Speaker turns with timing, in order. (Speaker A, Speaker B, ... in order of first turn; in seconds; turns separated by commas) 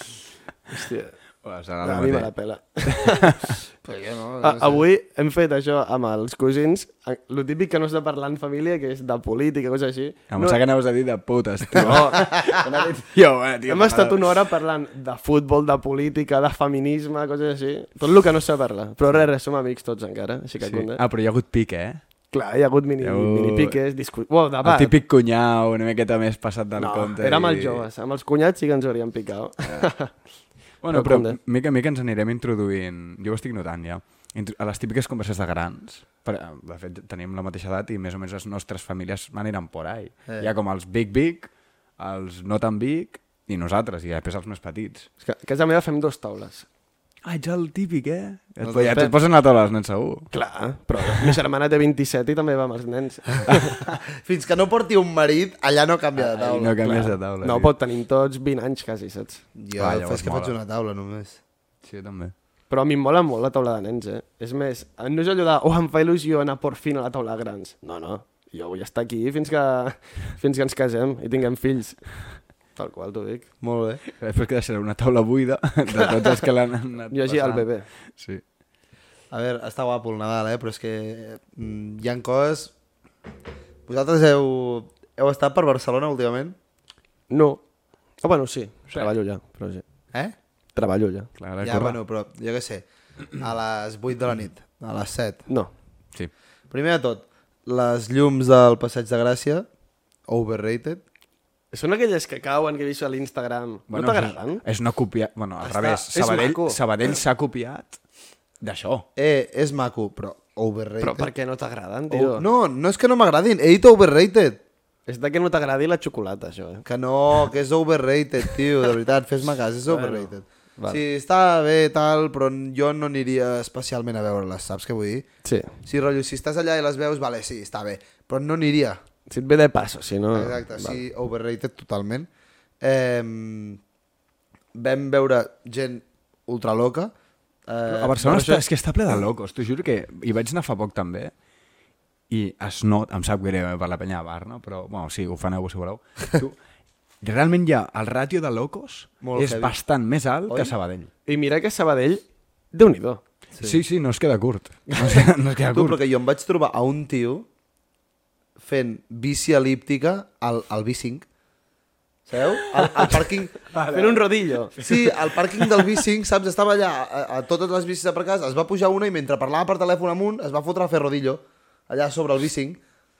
Speaker A: 0.7-1.1, Speaker B: 1.4-2.3, Speaker A: 1.8-3.5, Speaker B: 2.9-3.6, Speaker C: 3.8-4.8, Speaker A: 4.4-10.6, Speaker B: 10.3-14.4, Speaker A: 11.8-12.3, Speaker A: 13.7-21.0, Speaker B: 20.6-22.0, Speaker A: 22.3-24.9, Speaker B: 23.0-23.8, Speaker B: 24.6-27.9, Speaker A: 26.8-30.1, Speaker B: 30.8-45.1, Speaker A: 30.9-31.4, Speaker A: 45.2-46.6, Speaker B: 47.2-50.3, Speaker C: 48.6-49.1, Speaker A: 50.3-53.7, Speaker B: 53.5-53.9, Speaker C: 54.1-56.8, Speaker B: 56.2-57.7, Speaker A: 56.8-59.4, Speaker C: 59.5-61.4, Speaker B: 59.8-60.5, Speaker B: 61.8-62.3, Speaker A: 62.7-72.1, Speaker A: 72.8-73.5, Speaker C: 73.6-74.0, Speaker B: 74.2-78.4, Speaker A: 76.0-76.4, Speaker A: 77.1-77.9, Speaker C: 79.3-82.7, Speaker C: 83.9-86.5, Speaker A: 87.3-87.6, Speaker A: 88.2-89.8, Speaker A: 90.7-91.3, Speaker B: 91.4-92.0, Speaker C: 91.6-95.4, Speaker A: 95.5-95.7, Speaker C: 96.7-99.7, Speaker C: 100.3-101.0, Speaker A: 101.7-104.6, Speaker B: 103.9-108.0, Speaker A: 105.6-106.8, Speaker B: 108.6-109.0, Speaker C: 109.2-111.3, Speaker A: 111.0-112.5, Speaker C: 112.1-114.6, Speaker A: 115.1-116.8, Speaker C: 116.8-125.2, Speaker A: 119.9-121.0, Speaker A: 125.4-125.7, Speaker C: 125.8-129.0, Speaker A: 129.3-131.0, Speaker C: 130.3-132.3, Speaker C: 132.8-133.8, Speaker C: 134.7-137.1, Speaker C: 137.7-138.3, Speaker B: 137.9-141.3, Speaker A: 138.2-138.6, Speaker B: 142.3-146.6, Speaker B: 147.2-151.1, Speaker C: 149.2-149.7, Speaker C: 150.5-150.7, Speaker A: 151.3-153.2, Speaker C: 153.5-153.8, Speaker B: 153.6-156.0, Speaker C: 155.7-157.5, Speaker C: 158.6-161.2, Speaker C: 162.3-163.5, Speaker B: 163.6-165.9, Speaker A: 163.9-164.7, Speaker C: 164.8-172.8